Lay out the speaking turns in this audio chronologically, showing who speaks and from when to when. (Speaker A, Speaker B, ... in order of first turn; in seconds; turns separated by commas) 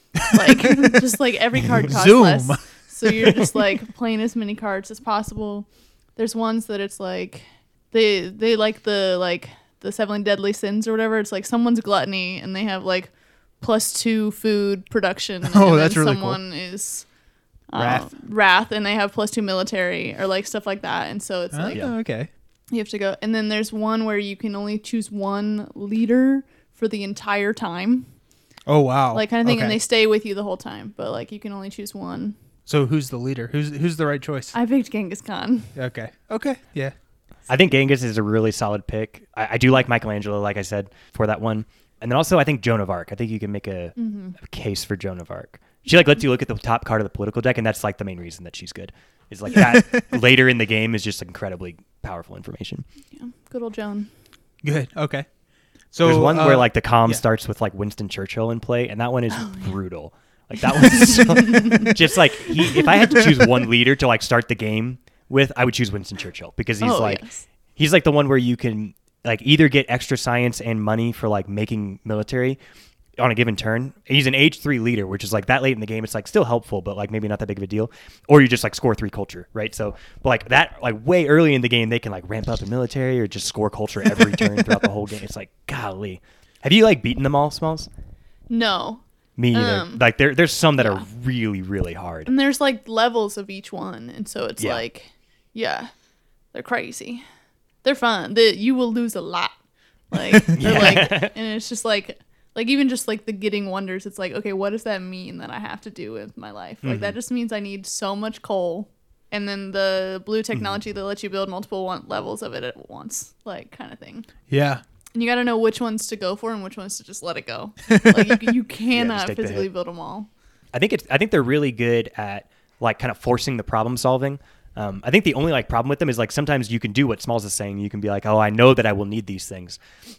Speaker A: 0.1-17.1, Speaker B: 1.9-3.1, Speaker B: 15.5-16.4, Speaker A: 17.7-22.0, Speaker B: 17.8-18.1, Speaker B: 21.5-22.3, Speaker A: 22.7-28.1, Speaker B: 28.6-29.8, Speaker A: 29.1-32.3, Speaker B: 32.7-34.5, Speaker A: 34.5-35.7, Speaker B: 35.7-37.0, Speaker C: 37.5-52.8, Speaker A: 44.0-44.4, Speaker B: 49.5-50.0, Speaker A: 53.1-54.1, Speaker B: 54.6-55.3, Speaker B: 55.9-57.2, Speaker C: 56.0-67.2, Speaker A: 59.4-59.7, Speaker A: 60.8-61.9, Speaker A: 62.6-62.9, Speaker A: 66.8-67.4, Speaker C: 67.8-72.6, Speaker C: 73.2-87.9, Speaker A: 88.5-90.0, Speaker C: 89.4-92.3, Speaker A: 90.8-91.0, Speaker A: 92.3-95.9, Speaker A: 96.5-97.2, Speaker A: 97.8-99.5, Speaker A: 100.1-114.3, Speaker C: 100.5-101.3, Speaker C: 106.8-107.2, Speaker B: 114.5-114.8, Speaker A: 115.1-120.3, Speaker B: 118.1-118.3, Speaker C: 118.9-119.7, Speaker C: 120.7-129.8